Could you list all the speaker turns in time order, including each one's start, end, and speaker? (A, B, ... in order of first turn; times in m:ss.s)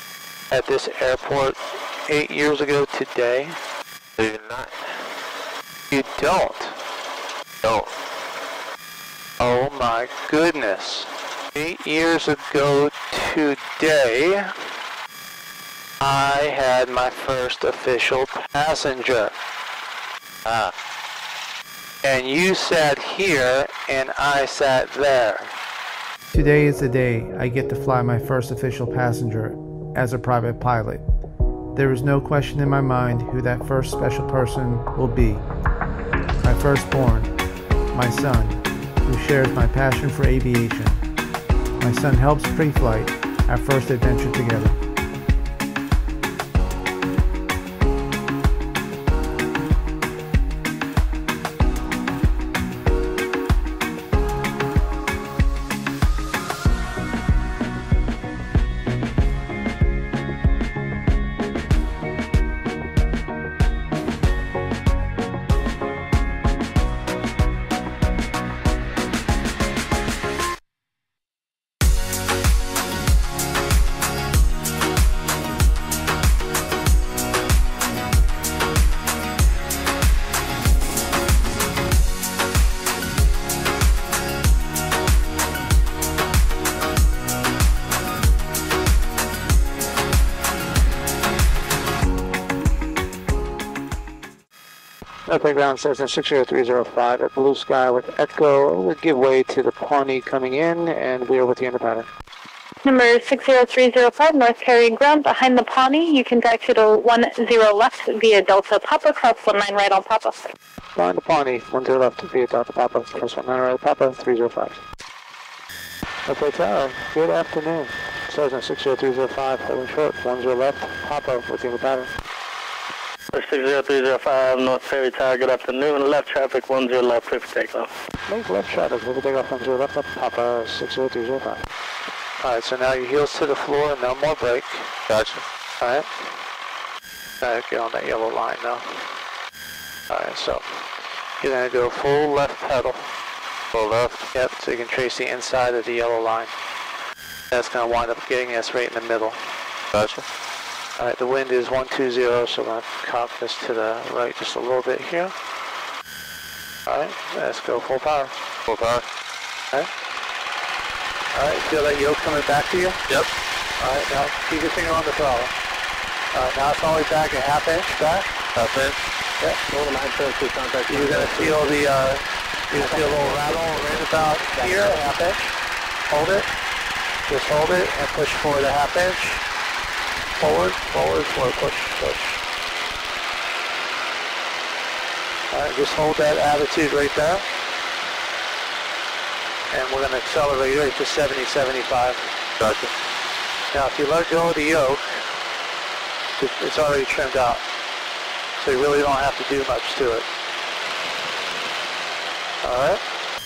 0:00.5-0:03.6 A
0:04.2-0:05.0 B
0:05.9-0:06.8 A
0:07.6-0:07.9 B
0:09.4-0:14.5 A
0:16.0-0:19.3 A
0:20.4-0:20.7 B
0:22.0-0:25.5 A
0:26.3-0:31.0 C
0:31.7-0:35.4 C
0:36.4-0:37.3 C
0:37.9-0:41.0 C
0:41.8-0:44.8 C
1:35.3-1:42.1 A
1:42.8-1:50.4 D
1:51.0-1:54.8 A
1:56.3-2:02.1 A
2:03.3-2:07.9 E
2:08.3-2:11.6 A
2:12.4-2:14.9 A
2:15.1-2:15.4 B
2:15.8-2:16.1 A
2:17.4-2:18.9 A
2:20.1-2:20.8 A
2:21.4-2:23.1 A
2:23.7-2:24.3 B
2:24.3-2:26.5 A
2:27.5-2:29.4 A
2:29.9-2:30.2 B
2:31.0-2:35.3 A
2:36.9-2:38.3 A
2:38.7-2:39.0 B
2:41.3-2:43.0 A
2:43.8-2:45.5 A
2:46.3-2:48.3 A
2:48.6-2:49.0 B
2:49.7-2:51.6 E
2:50.9-2:55.5 A
2:52.8-2:53.6 E
2:54.5-2:55.0 E
2:56.1-2:56.5 A
2:57.3-2:59.4 A
3:00.4-3:02.3 A
3:05.5-3:07.4 A
3:09.7-3:12.2 A
3:12.6-3:12.9 B
3:13.7-3:15.2 A
3:16.4-3:17.6 A
3:18.6-3:20.3 A
3:22.6-3:23.0 A